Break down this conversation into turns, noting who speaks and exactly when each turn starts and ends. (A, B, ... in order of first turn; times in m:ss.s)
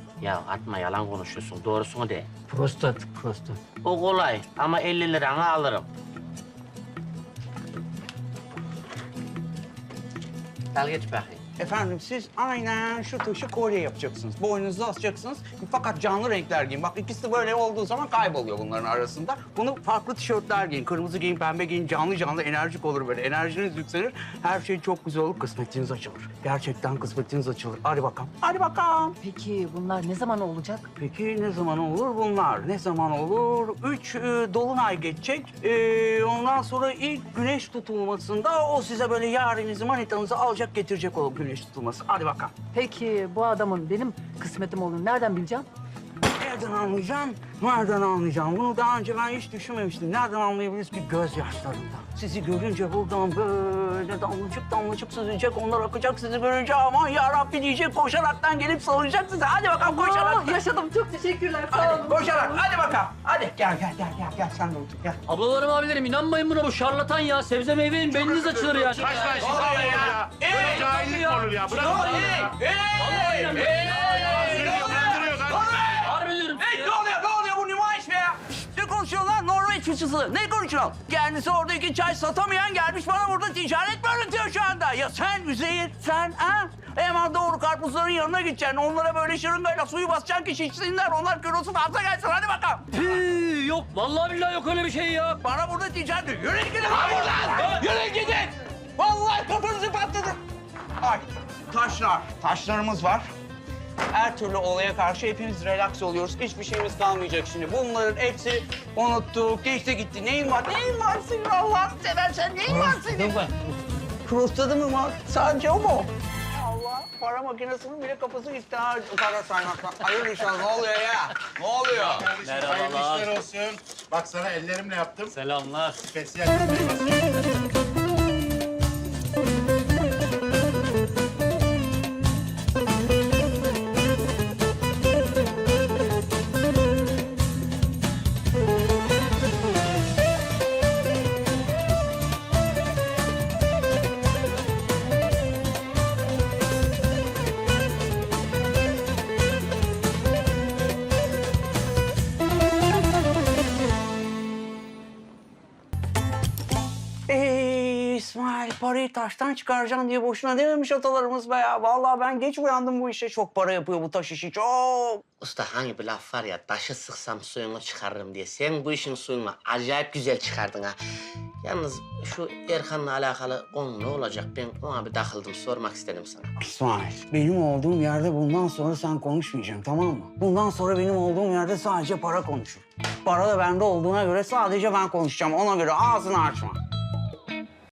0:00.2-0:02.4 A
0:02.5-0:03.6 B
0:03.8-0:05.9 A
0:10.7-0:11.4 A
0:11.6-0:29.2 C
0:29.2-0:30.9 B
0:31.0-0:42.6 C
0:42.7-0:45.7 B
0:46.3-1:00.6 C
0:59.8-1:02.6 B
1:01.7-1:05.2 C
1:05.3-1:15.3 D
1:09.1-1:10.3 E
1:09.4-1:11.1 C
1:11.0-1:12.0 E
1:11.7-1:32.9 C
1:14.6-1:15.6 E
1:15.9-1:16.9 D
1:32.9-1:35.4 D
1:35.4-1:40.4 C
1:37.2-1:37.8 D
1:41.0-1:43.3 C
1:44.1-1:53.5 C
1:54.2-2:02.3 C
2:02.1-2:03.4 D
2:02.3-2:05.3 E
2:05.3-2:06.1 D
2:06.1-2:07.3 E
2:37.3-2:45.2 C
2:45.4-2:51.0 A
2:51.6-2:56.5 A
2:56.6-3:06.8 C